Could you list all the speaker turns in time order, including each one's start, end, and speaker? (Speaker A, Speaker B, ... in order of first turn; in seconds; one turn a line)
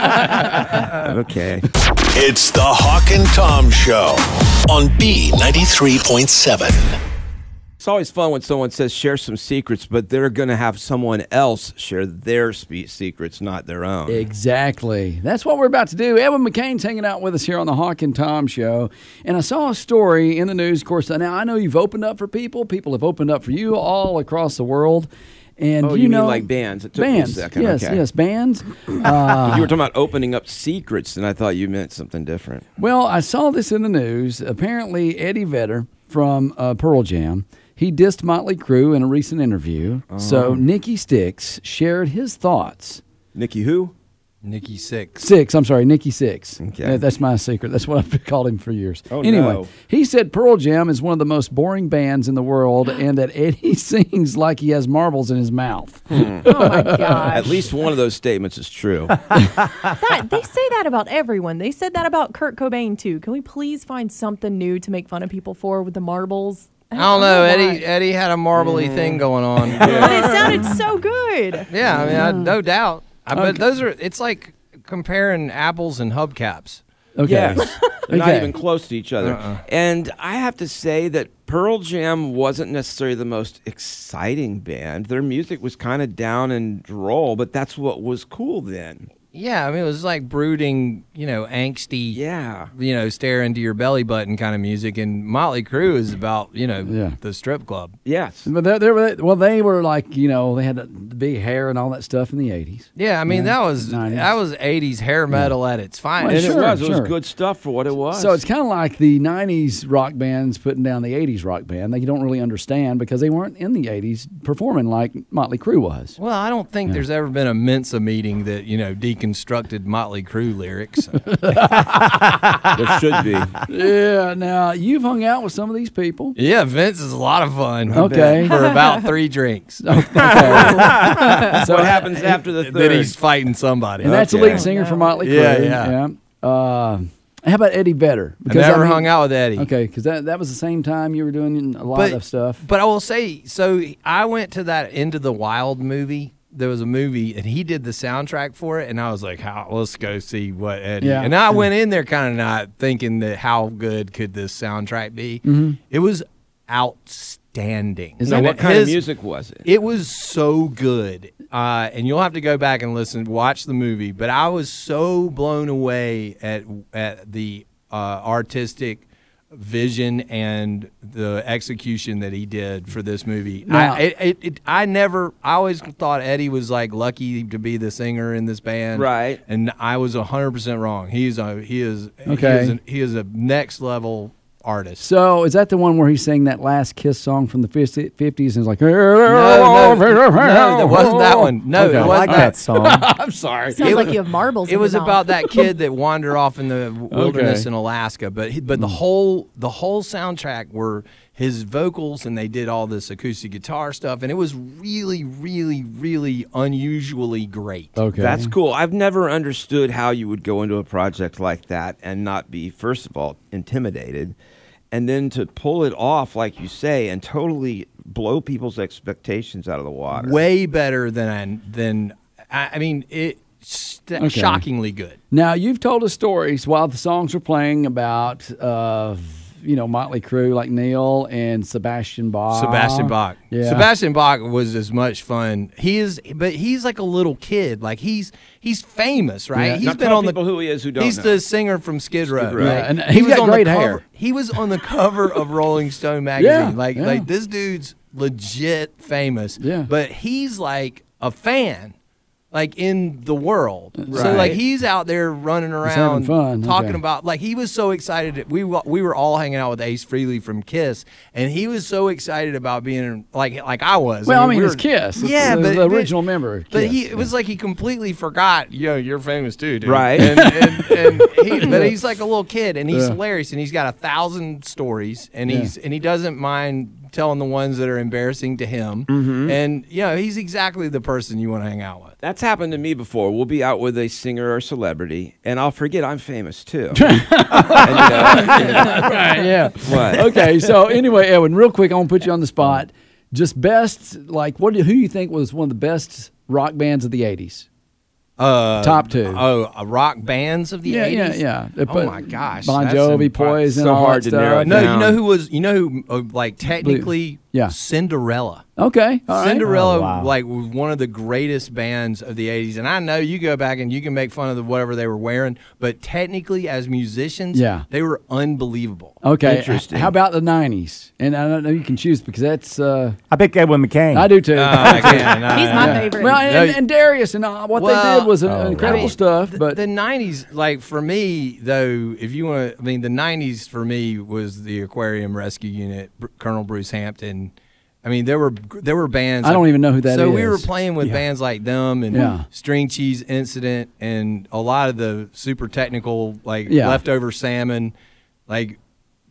Speaker A: 0.9-1.6
Speaker B: 2.1-7.0
Speaker A: 7.8-14.2
Speaker C: 14.1-29.7
Speaker A: 25.8-28.0
Speaker A: 29.0-32.6
Speaker C: 32.8-43.0
Speaker A: 40.1-40.6
Speaker A: 43.3-43.9
Speaker D: 44.4-45.3
Speaker C: 45.2-57.4
Speaker A: 46.6-47.0
Speaker A: 49.1-49.7
Speaker A: 56.1-56.5
Speaker E: 56.4-57.7
Speaker A: 57.3-59.3
Speaker E: 60.0-67.8
Speaker D: 66.9-70.6
Speaker A: 69.8-70.5
Speaker E: 69.8-71.7
Speaker D: 71.7-76.8
Speaker C: 72.0-72.5
Speaker C: 73.3-73.6
Speaker C: 77.2-78.6
Speaker A: 77.2-89.1
Speaker D: 79.2-79.6
Speaker D: 89.3-92.2
Speaker A: 92.1-92.7
Speaker D: 92.7-98.0
Speaker C: 96.8-97.2
Speaker A: 98.0-98.5
Speaker C: 98.5-104.3
Speaker D: 103.0-106.8
Speaker C: 106.2-107.1
Speaker A: 106.3-108.4
Speaker C: 108.1-116.2
Speaker D: 116.2-121.4
Speaker C: 121.3-122.2
Speaker A: 122.7-123.6
Speaker C: 123.7-126.3
Speaker D: 126.4-130.5
Speaker C: 127.9-128.6
Speaker A: 127.9-128.4
Speaker E: 128.6-129.1
Speaker C: 129.8-132.4
Speaker A: 130.2-133.1
Speaker E: 130.6-131.5
Speaker D: 132.2-134.6
Speaker C: 134.0-142.6
Speaker A: 134.1-134.6
Speaker E: 134.6-135.2
Speaker D: 135.2-135.9
Speaker D: 138.4-139.7
Speaker D: 141.9-159.0
Speaker C: 151.0-151.6
Speaker C: 155.4-155.8
Speaker C: 158.2-158.5
Speaker A: 158.3-159.6
Speaker D: 159.6-185.0
Speaker C: 173.7-174.0
Speaker A: 178.9-179.4
Speaker C: 182.3-182.8
Speaker C: 185.0-194.1
Speaker D: 189.2-192.5
Speaker F: 191.8-193.1
Speaker E: 193.7-195.5
Speaker D: 193.8-208.0
Speaker C: 197.1-197.7
Speaker C: 208.0-208.5
Speaker A: 208.2-214.3
Speaker A: 214.9-220.4
Speaker D: 220.1-225.2
Speaker C: 224.2-224.6
Speaker C: 225.3-233.9
Speaker D: 232.5-251.9
Speaker C: 239.5-239.8
Speaker A: 239.8-241.4
Speaker A: 242.3-242.9
Speaker C: 242.6-244.0
Speaker C: 246.4-247.3
Speaker C: 249.6-249.9
Speaker D: 252.5-266.2
Speaker C: 254.0-254.6
Speaker A: 254.1-254.6
Speaker C: 255.8-257.0
Speaker C: 264.2-267.3
Speaker D: 266.7-282.1
Speaker A: 269.8-270.5
Speaker C: 270.2-271.9
Speaker C: 272.9-273.2
Speaker C: 275.5-275.7
Speaker A: 279.1-279.5
Speaker A: 282.2-290.6
Speaker C: 286.9-297.6
Speaker D: 298.4-303.7
Speaker C: 298.8-299.4
Speaker C: 300.8-305.0
Speaker A: 303.7-305.2
Speaker D: 304.6-308.6
Speaker C: 306.8-307.7
Speaker C: 308.8-309.6
Speaker D: 309.3-319.2
Speaker F: 309.6-310.3
Speaker C: 317.5-317.8
Speaker C: 319.2-323.2
Speaker A: 319.4-320.1
Speaker F: 323.3-324.4
Speaker C: 324.1-329.8
Speaker D: 324.5-326.8
Speaker E: 325.4-326.5
Speaker D: 327.7-337.5
Speaker F: 328.4-329.1
Speaker D: 338.0-347.9
Speaker C: 339.4-340.7
Speaker C: 342.1-342.4
Speaker C: 346.7-347.0
Speaker D: 348.5-348.8